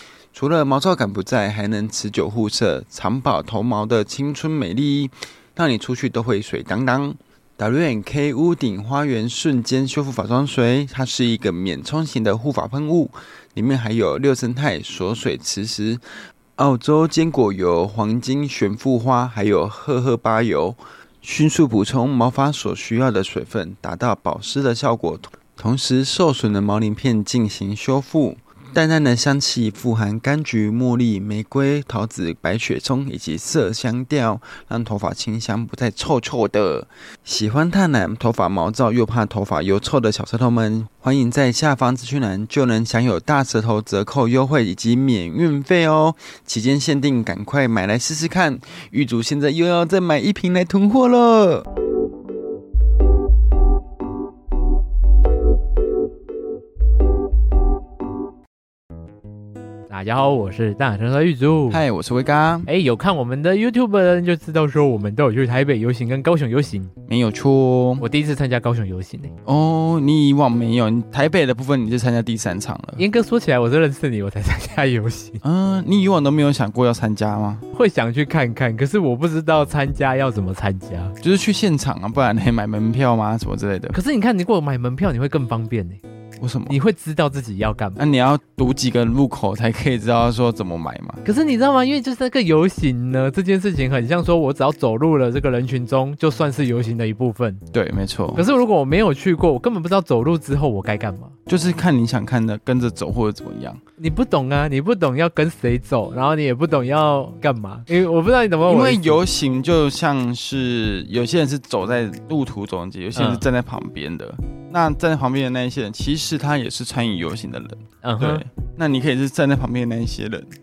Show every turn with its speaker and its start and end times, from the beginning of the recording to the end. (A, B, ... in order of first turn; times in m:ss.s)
0:00.3-0:16.0 A
0:16.6-0:51.7 A
0:59.9-1:01.8 B
1:01.7-1:02.7 A
1:02.7-1:06.9 B
1:07.1-1:08.0 A
1:08.0-1:09.3 B
1:09.5-1:13.0 A
1:13.0-1:15.4 B
1:15.4-1:17.6 A
1:17.7-1:21.2 B
1:21.2-1:24.0 A
1:23.9-1:26.0 B
1:26.4-1:26.8 A
1:26.7-1:28.0 B
1:28.0-1:31.2 A
1:31.2-1:37.6 B
1:37.7-1:38.5 A
1:38.3-1:41.4 B
1:41.5-1:43.8 A
1:44.0-1:49.2 B
1:48.7-2:00.5 A
1:53.2-1:53.4 B
1:58.0-1:58.4 B